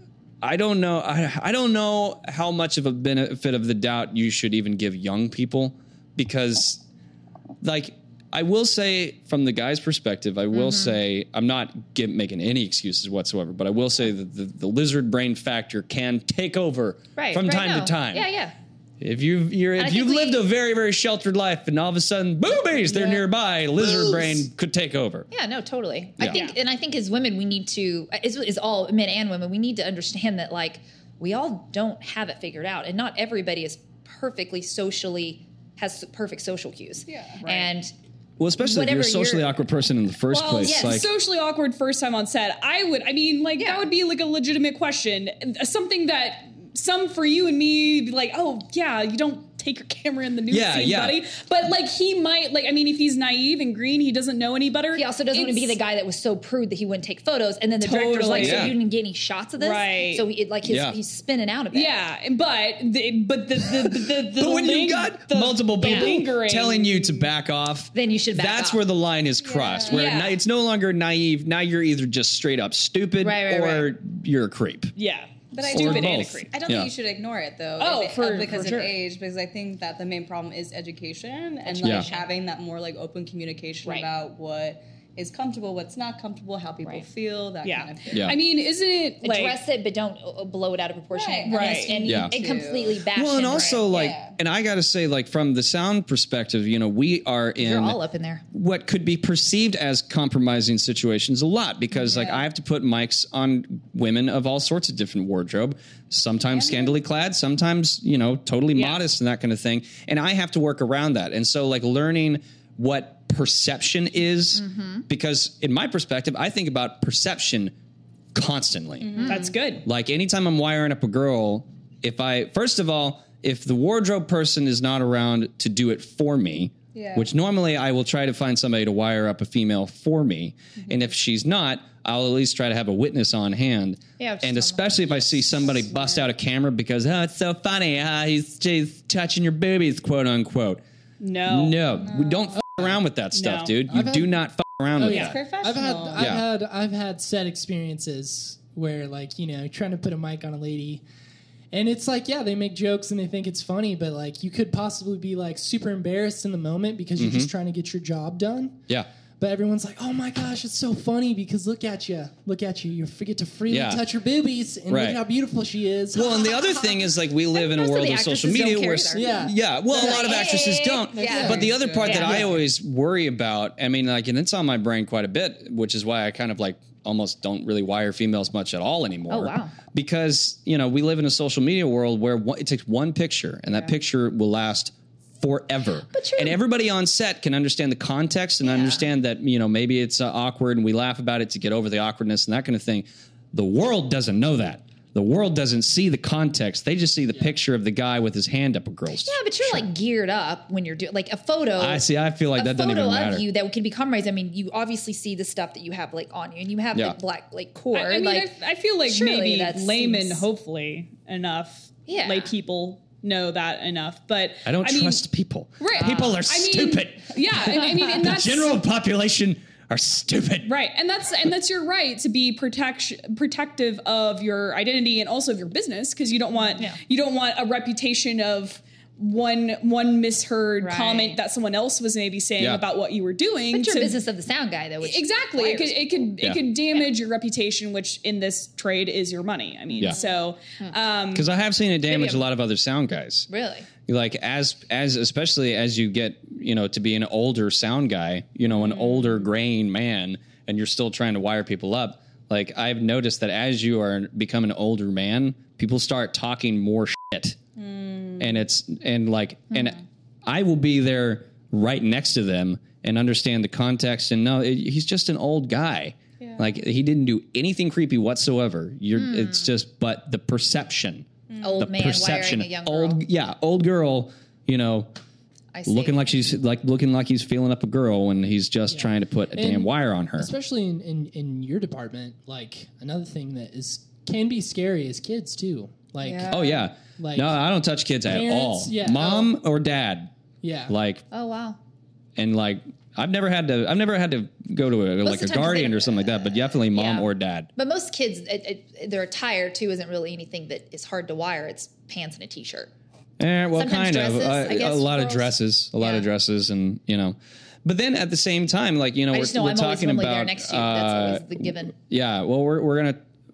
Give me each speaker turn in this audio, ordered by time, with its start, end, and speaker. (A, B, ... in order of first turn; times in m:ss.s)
0:00.4-0:06.8 A
0:07.6-0:18.3 A
0:10.5-0:11.0 B
0:17.2-0:18.5 B
0:19.0-0:25.3 A
0:19.8-0:20.4 B
0:25.3-0:37.9 B
0:26.3-0:26.6 C
0:37.1-0:37.4 D
0:37.4-0:37.7 C
0:38.4-0:41.1 A
0:38.6-0:39.5 B
0:40.3-0:55.8 C
0:40.6-0:41.0 B
0:43.6-0:43.8 B
0:50.5-0:51.2 A
0:54.9-1:02.0 B
0:57.8-0:58.8 C
0:58.3-0:58.8 A
0:59.6-1:00.3 C
1:00.6-1:01.0 A
1:01.7-1:07.3 C
1:04.2-1:14.9 A
1:05.8-1:06.2 B
1:07.9-1:08.8 B
1:09.4-1:10.2 D
1:09.8-1:10.4 C
1:13.2-1:13.9 B
1:15.0-1:16.5 C
1:15.5-1:28.3 D
1:15.7-1:16.9 A
1:17.8-1:19.0 C
1:21.6-1:22.2 B
1:21.8-1:22.1 A
1:27.6-1:29.6 C
1:28.1-1:28.4 A
1:29.2-1:34.1 B
1:31.1-1:33.0 D
1:31.5-1:32.0 C
1:32.0-1:32.3 A
1:33.0-1:38.0 A
1:33.8-1:34.4 D
1:37.6-1:38.4 B
1:38.5-1:57.7 A
1:42.0-1:42.4 D
1:46.5-1:47.0 D
1:48.7-1:49.0 C
1:54.6-1:55.0 B
1:58.3-1:59.2 A
1:59.0-1:59.5 D
1:59.1-1:59.5 B
1:59.2-1:59.8 C
1:59.8-2:20.8 A
2:06.9-2:07.3 D
2:14.2-2:15.8 B
2:15.8-2:16.2 D
2:21.2-2:21.9 C
2:21.4-2:25.4 A
2:22.0-2:22.6 D
2:23.3-2:23.8 C
2:23.9-2:24.3 E
2:25.0-2:31.0 E
2:25.0-2:25.3 C
2:25.1-2:26.4 D
2:26.2-2:26.4 A
2:31.7-2:38.8 E
2:37.2-2:37.5 A
2:39.4-2:46.4 E
2:43.7-2:44.0 A
2:44.9-2:45.2 A
2:46.1-3:19.9 A
2:46.1-2:52.5 B
2:49.1-2:49.6 E
2:51.2-2:52.5 D
2:51.2-2:52.6 E
2:59.3-2:59.7 B
3:06.1-3:06.6 B
3:08.6-3:09.1 B
3:19.2-3:30.4 B
3:21.8-3:23.5 A
3:27.9-3:35.2 C
3:32.1-3:32.5 B
3:34.6-3:40.7 A
3:35.8-3:38.8 C
3:35.9-3:36.4 B
3:40.6-3:54.2 C
3:50.8-3:51.4 B
3:52.6-3:52.8 A
3:53.7-3:56.2 B
3:55.0-4:01.5 C
4:01.3-4:03.5 A
4:02.1-4:02.4 B
4:03.5-4:03.9 B
4:04.0-4:17.6 A
4:17.8-4:18.6 D
4:18.4-4:31.3 A
4:26.4-4:26.7 D
4:29.1-4:29.7 B
4:31.5-4:31.9 D
4:31.6-4:33.2 B
4:31.8-4:35.1 A
4:35.7-4:36.2 B
4:35.8-4:40.5 A
4:38.9-4:47.6 E
4:46.3-4:46.6 D
4:46.5-4:50.3 A
4:48.2-4:49.5 E
4:50.6-4:50.9 E
4:50.9-4:51.2 A
4:51.3-4:51.8 B
4:52.4-4:57.7 A
4:55.2-5:02.9 B
5:03.4-5:13.2 A
5:03.7-5:06.3 B
5:09.3-5:11.9 B